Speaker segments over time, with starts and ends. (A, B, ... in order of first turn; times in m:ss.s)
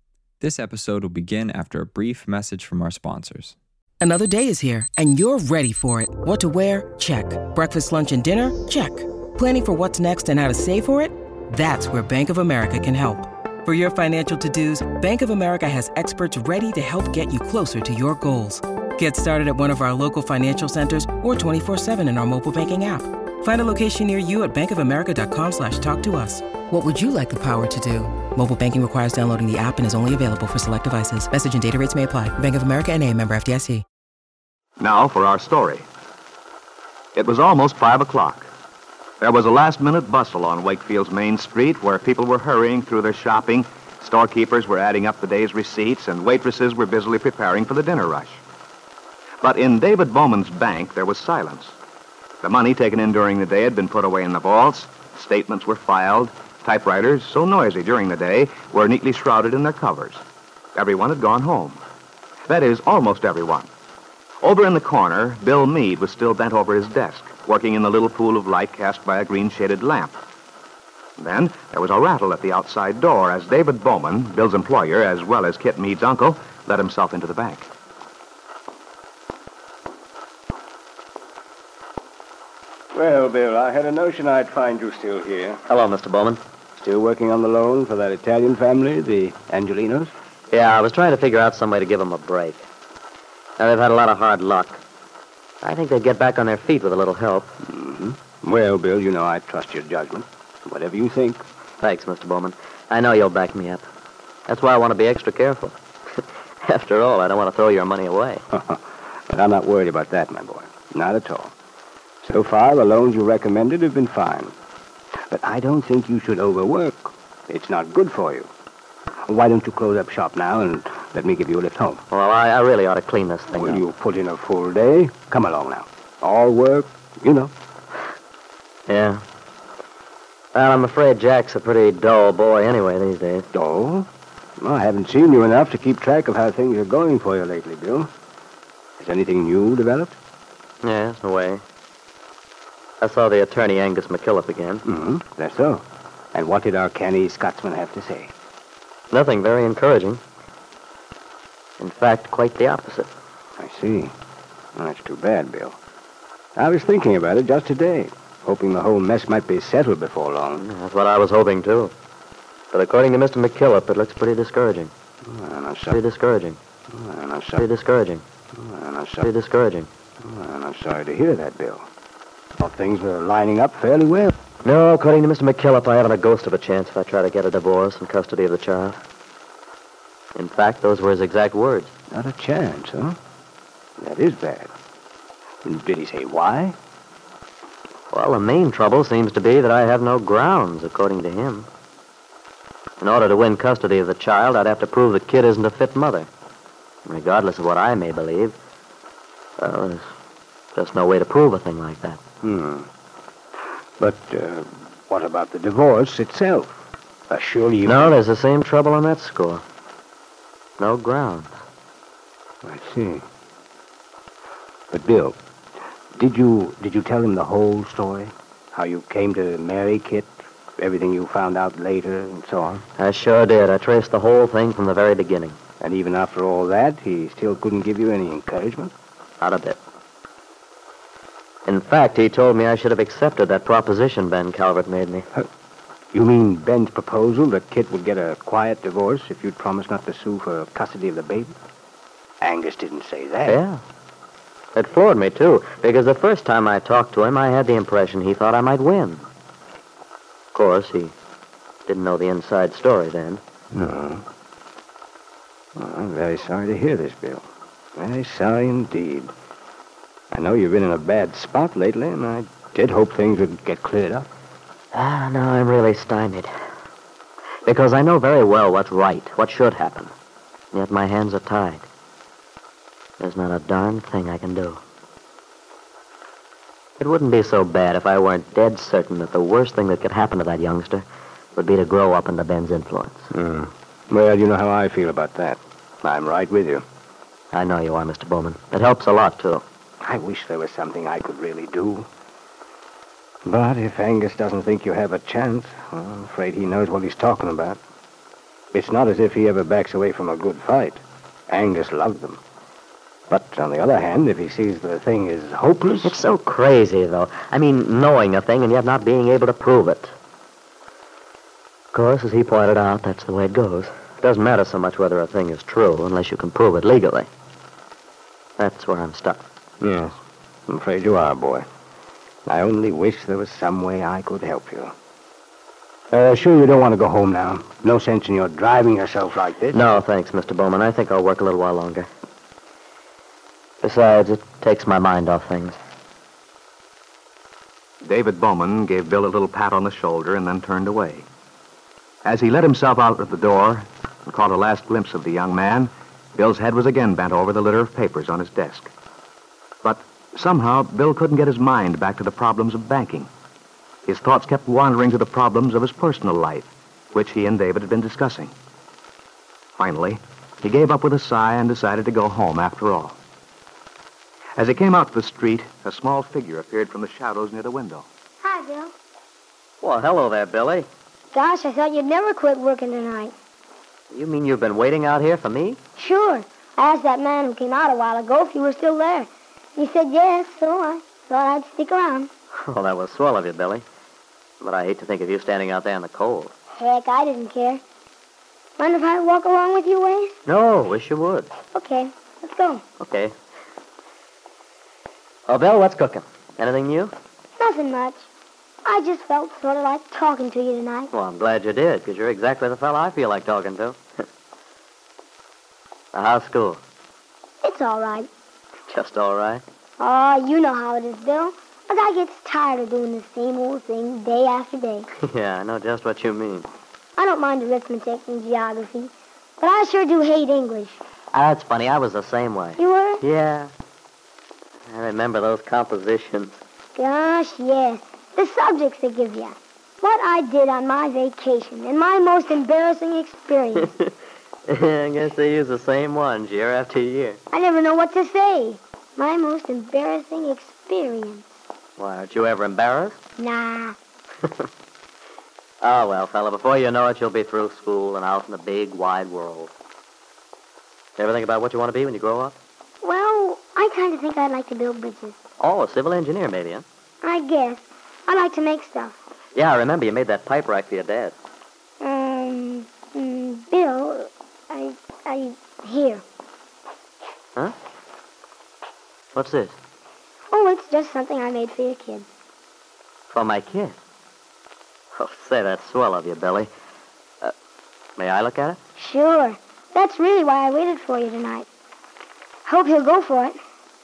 0:00.4-0:03.6 A
0:04.0-0:33.8 B
0:34.8-0:35.8 C
0:37.2-0:38.5 C
0:39.2-0:48.4 C
0:49.4-0:51.8 C
0:52.4-1:00.2 C
1:00.8-1:01.8 C
1:02.5-1:03.7 C
1:04.4-1:10.2 C
1:11.2-1:17.7 C
1:22.9-1:25.6 D
1:25.7-1:26.4 E
1:26.8-1:30.1 D
1:30.5-1:32.6 E
1:33.6-1:34.8 E
1:35.6-1:37.5 E
1:37.6-1:41.4 D
1:41.8-1:43.8 E
1:44.5-1:48.4 E
1:48.5-1:51.5 D
1:52.2-1:54.5 D
1:55.3-1:58.5 D
1:59.3-2:02.0 D
2:02.1-2:03.8 E
2:03.5-2:07.5 D
2:08.9-2:09.2 E
2:10.5-2:13.5 E
2:13.5-2:14.1 D
2:14.6-2:18.1 D
2:19.0-2:20.2 D
2:20.8-2:21.6 E
2:23.0-2:24.8 E
2:24.8-2:28.3 D
2:29.1-2:30.2 E
2:31.8-2:33.1 E
2:33.6-2:34.1 D
2:34.8-2:35.8 D
2:36.6-2:40.6 D
2:40.6-2:41.9 E
2:42.7-2:44.9 E
2:45.2-2:46.0 D
2:45.9-2:46.6 E
2:46.9-2:47.6 D
2:47.6-2:48.2 E
2:48.5-2:49.3 D
2:49.2-2:49.9 E
2:50.2-2:51.9 D
2:52.6-2:54.3 D
2:54.6-2:59.0 E
3:00.3-3:01.9 E
3:02.1-3:03.2 D
3:04.0-3:04.7 D
3:05.6-3:06.8 D
3:08.1-3:11.7 E
3:13.0-3:16.3 E
3:17.0-3:18.6 E
3:19.6-3:20.1 E
3:20.7-3:22.2 E
3:22.4-3:22.9 D
3:24.0-3:28.2 D
3:27.8-3:29.6 E
3:30.8-3:31.5 E
3:32.6-3:33.2 D
3:34.9-3:35.4 D
3:36.1-3:42.8 D
3:43.0-3:45.6 E
3:45.8-3:48.9 D
3:49.4-3:49.8 E
3:51.6-3:55.3 E
3:56.1-4:01.5 D
4:02.4-4:03.6 D
4:03.4-4:03.8 E
4:04.7-4:09.3 E
4:10.5-4:11.1 E
4:11.9-4:13.4 E
4:13.7-4:14.2 D
4:15.8-4:17.4 D
4:18.0-4:19.3 D
4:20.3-4:24.3 D
4:24.9-4:26.5 E
4:27.6-4:30.1 E
4:30.7-4:31.8 E
4:33.2-4:34.8 E
4:37.0-4:43.3 E
4:43.3-4:46.8 D
4:47.5-4:49.6 E
4:50.0-4:52.1 D
4:53.4-4:57.8 D
4:58.7-5:02.4 D
5:03.3-5:06.2 D
5:06.0-5:10.1 E
5:11.9-5:17.3 E
5:18.6-5:19.4 E
5:19.8-5:21.6 D
5:22.4-5:24.9 D
5:26.1-5:29.9 D
5:29.7-5:32.1 E
5:33.8-5:35.8 E
5:38.0-5:41.2 C
5:42.2-5:48.9 C
5:49.8-5:53.3 C
5:54.0-5:58.5 C
5:59.8-6:03.2 C
6:04.6-6:08.0 C
6:08.4-6:08.9 F
6:09.8-6:10.9 E
6:11.3-6:13.3 F
6:14.1-6:15.8 E
6:16.0-6:22.3 F
6:22.6-6:23.8 E
6:24.6-6:26.5 E
6:26.7-6:27.8 F
6:28.8-6:30.4 F
6:30.4-6:31.5 E
6:31.7-6:32.8 F
6:33.0-6:33.3 E
6:35.5-6:37.1 E
6:37.6-6:38.2 F
6:38.8-6:41.1 F
6:41.1-6:44.0 E
6:46.1-6:46.8 E
6:47.6-6:48.3 F
6:48.9-6:49.6 E
6:50.0-6:55.1 F
6:55.2-6:56.7 E
6:57.2-7:01.0 F
7:01.3-7:03.7 E
7:02.8-7:03.2 F
7:04.9-7:06.6 E
7:06.9-7:13.9 F
7:14.7-7:17.4 E
7:17.5-7:21.5 F
7:22.0-7:23.2 E
7:23.4-7:24.0 F
7:25.8-7:29.7 E
7:31.2-7:32.6 E
7:33.0-7:35.4 F
7:35.6-7:36.8 E
7:37.2-7:39.2 F
7:39.5-7:41.3 E
7:42.0-7:46.2 F
7:49.3-7:49.8 E
7:50.5-7:52.2 F
7:53.3-7:54.0 E
7:55.2-7:56.7 E
7:58.2-7:58.8 E
7:59.0-8:01.7 F
8:02.6-8:03.6 F